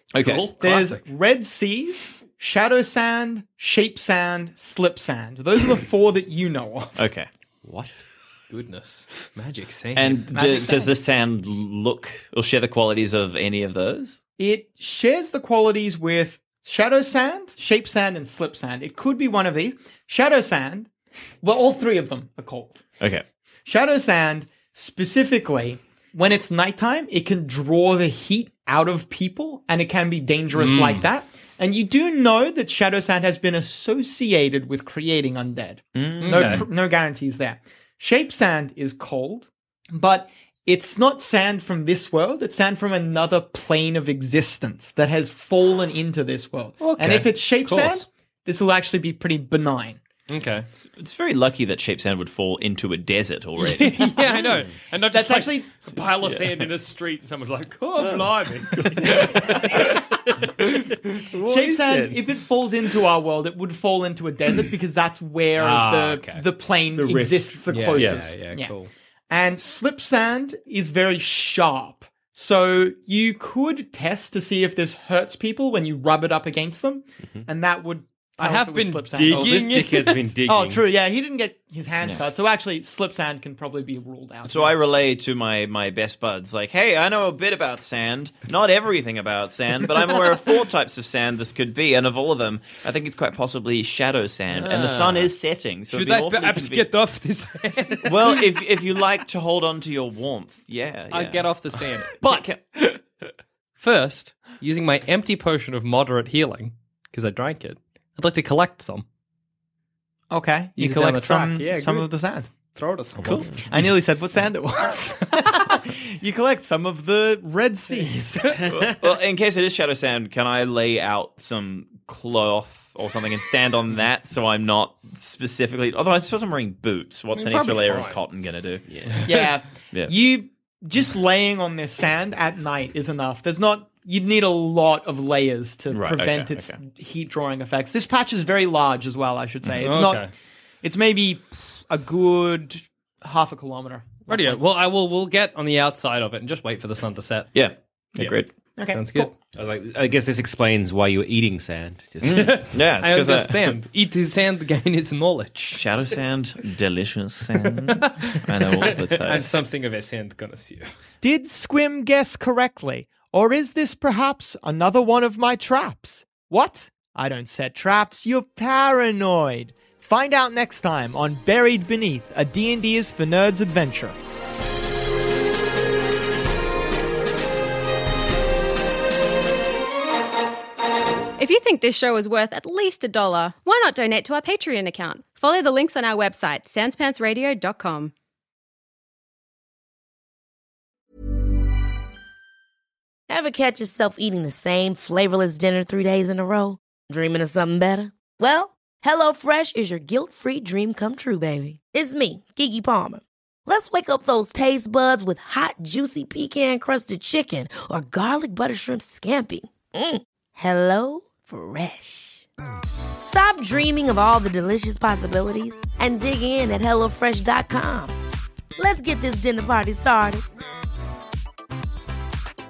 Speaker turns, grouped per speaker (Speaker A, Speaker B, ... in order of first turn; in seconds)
Speaker A: 0.1-0.5, 7.0-7.3, 9.9-14.2, 36.0-36.7, 50.8-54.1, 84.5-96.9, 98.1-101.5, 102.3-103.0, 113.2-113.6, 118.7-129.1, 135.9-136.8, 147.5-148.5, 152.2-153.8, 155.7-159.6
Speaker B: 0.2-1.1, 8.5-10.3, 30.6-31.1, 36.2-36.7, 46.8-48.0, 50.3-50.7, 53.6-59.6, 65.6-66.4, 67.7-68.9, 78.4-80.3, 95.9-98.5, 101.1-102.5, 103.8-109.0, 110.8-112.1, 112.7-113.7, 127.3-128.2, 129.1-129.4, 139.8-140.3, 144.3-147.5, 148.9-149.3, 152.3-155.8, 157.6-160.9
Speaker C: 0.5-7.0, 10.3-10.9, 14.4-20.9, 21.4-22.8, 23.7-50.0, 55.1-55.9, 61.5-68.7, 69.3-79.7, 80.5-84.8, 110.3-112.5, 113.7-118.7, 129.2-140.3, 140.8-144.6, 148.8-149.3, 161.2-174.2
Speaker D: 7.7-7.9, 47.0-47.9, 58.7-62.3, 67.0-68.2, 79.3-80.8, 94.7-95.3, 128.9-129.2, 149.6-152.7
Speaker E: 181.4-188.1
Speaker F: 193.3-212.5, 213.2-218.2, 218.8-220.4